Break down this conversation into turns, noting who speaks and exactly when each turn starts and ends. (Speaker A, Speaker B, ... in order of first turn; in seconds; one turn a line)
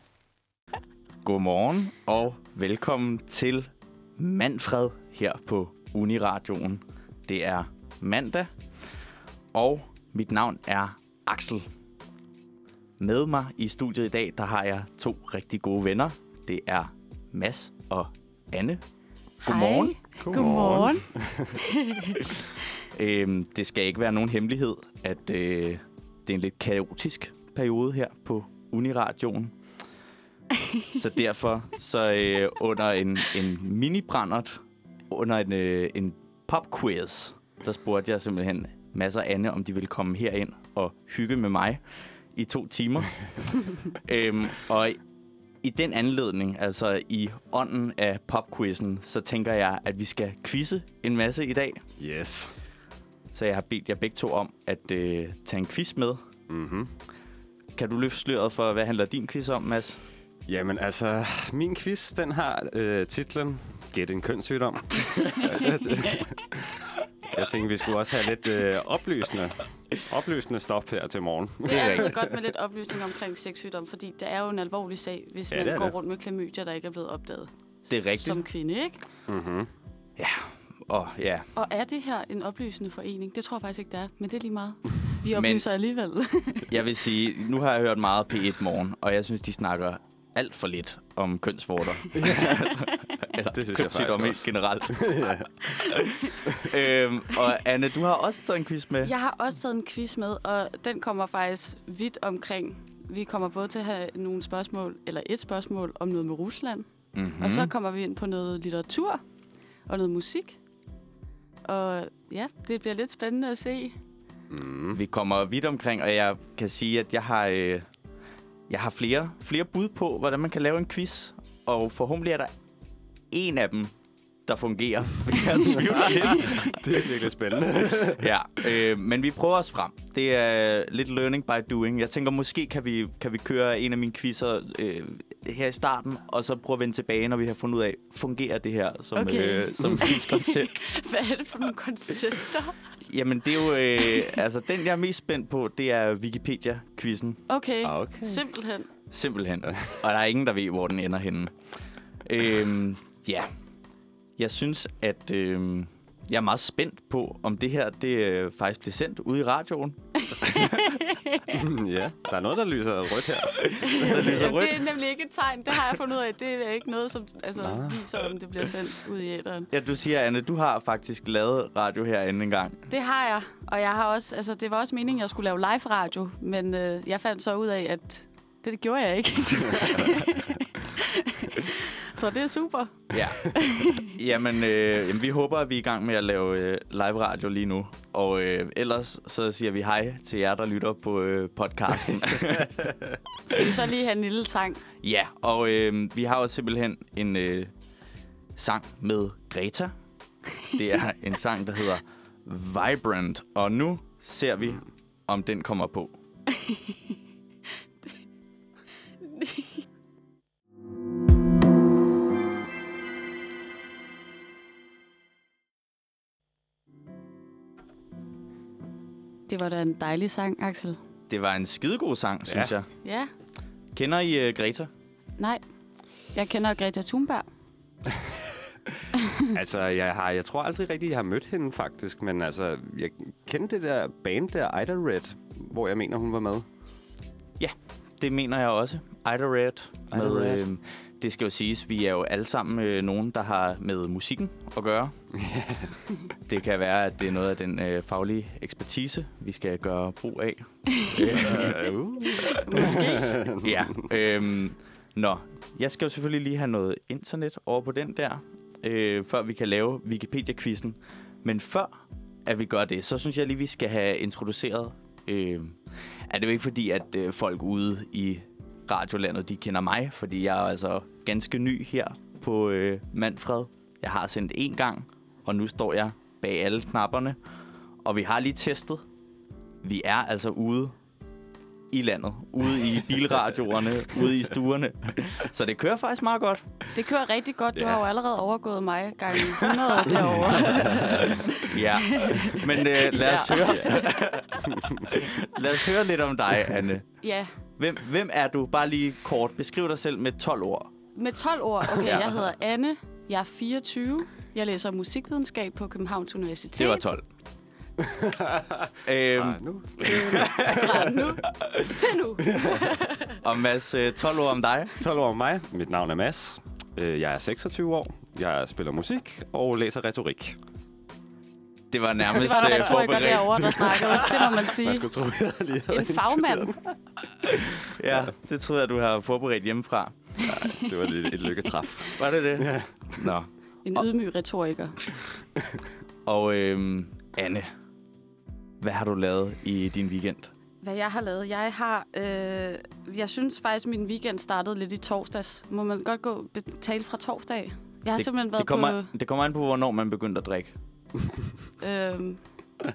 Speaker A: 1.2-8.5
Speaker A: 9.5-11.7
Speaker A: 13.0-18.8
Speaker B: 19.4-22.3
Speaker A: 19.4-20.9
Speaker C: 20.3-21.5
Speaker A: 22.9-29.5
Speaker A: 30.9-41.8
Speaker A: 42.3-45.0
Speaker A: 45.6-51.8
Speaker C: 52.0-52.5
Speaker A: 53.3-56.2
Speaker C: 56.5-56.9
Speaker A: 57.7-60.0
Speaker C: 60.5-72.5
Speaker B: 71.6-79.0
Speaker C: 75.5-76.0
Speaker A: 77.9-78.4
Speaker C: 79.3-79.7
Speaker A: 80.2-81.5
Speaker B: 81.5-86.7
Speaker A: 85.3-85.6
Speaker A: 86.7-99.1
Speaker C: 92.1-92.8
Speaker C: 93.4-95.5
Speaker B: 99.0-106.9
Speaker A: 107.1-107.7
Speaker B: 107.4-109.2
Speaker B: 109.9-110.6
Speaker B: 111.6-114.0
Speaker C: 114.5-115.0
Speaker A: 114.9-117.9
Speaker A: 118.7-122.5
Speaker A: 123.3-123.9
Speaker A: 124.5-126.9
Speaker C: 125.8-128.3
Speaker A: 128.2-140.8
Speaker B: 139.1-142.8
Speaker A: 143.1-147.4
Speaker B: 147.5-148.9
Speaker C: 147.8-148.4
Speaker A: 149.1-151.5
Speaker A: 152.2-153.5
Speaker A: 154.4-160.9
Speaker B: 160.3-161.6
Speaker C: 161.5-164.3
Speaker A: 163.6-164.9
Speaker B: 163.8-169.7
Speaker C: 167.6-168.3
Speaker A: 169.7-172.8
Speaker B: 172.9-184.1
Speaker A: 183.1-192.9
Speaker B: 193.5-194.8
Speaker A: 195.0-197.7
Speaker A: 198.6-199.9
Speaker A: 200.7-206.1
Speaker B: 206.5-207.0
Speaker B: 209.2-209.8
Speaker B: 219.5-221.0
Speaker A: 221.3-222.9
Speaker C: 222.5-222.7
Speaker B: 223.0-223.3
Speaker A: 223.9-224.9
Speaker B: 226.3-227.5
Speaker C: 228.1-236.6
Speaker A: 237.6-245.1
Speaker C: 240.1-240.6
Speaker C: 245.3-245.9
Speaker A: 246.5-252.9
Speaker C: 251.3-254.0
Speaker B: 252.2-253.4
Speaker A: 253.6-261.9
Speaker A: 262.4-277.4
Speaker A: 278.0-279.0
Speaker A: 279.8-280.9
Speaker A: 281.9-286.6
Speaker B: 286.9-294.1
Speaker C: 287.7-288.0
Speaker C: 290.8-291.3
Speaker A: 291.5-297.1
Speaker C: 293.6-294.0
Speaker C: 294.7-295.0
Speaker B: 297.2-297.5
Speaker A: 297.8-300.9
Speaker B: 301.1-307.1
Speaker A: 302.0-302.4
Speaker A: 306.8-307.2
Speaker C: 308.0-311.1
Speaker A: 309.0-311.9
Speaker B: 310.0-313.4
Speaker A: 313.4-315.0
Speaker C: 315.0-320.6
Speaker A: 321.9-323.7
Speaker B: 322.3-325.1
Speaker C: 322.6-326.9
Speaker B: 325.9-326.7
Speaker A: 327.4-330.1
Speaker B: 330.4-330.9
Speaker C: 330.4-333.3
Speaker A: 332.1-334.0
Speaker B: 333.8-335.0
Speaker A: 336.2-337.7
Speaker A: 338.8-340.5
Speaker B: 340.8-349.1
Speaker A: 348.1-350.7
Speaker B: 351.8-352.4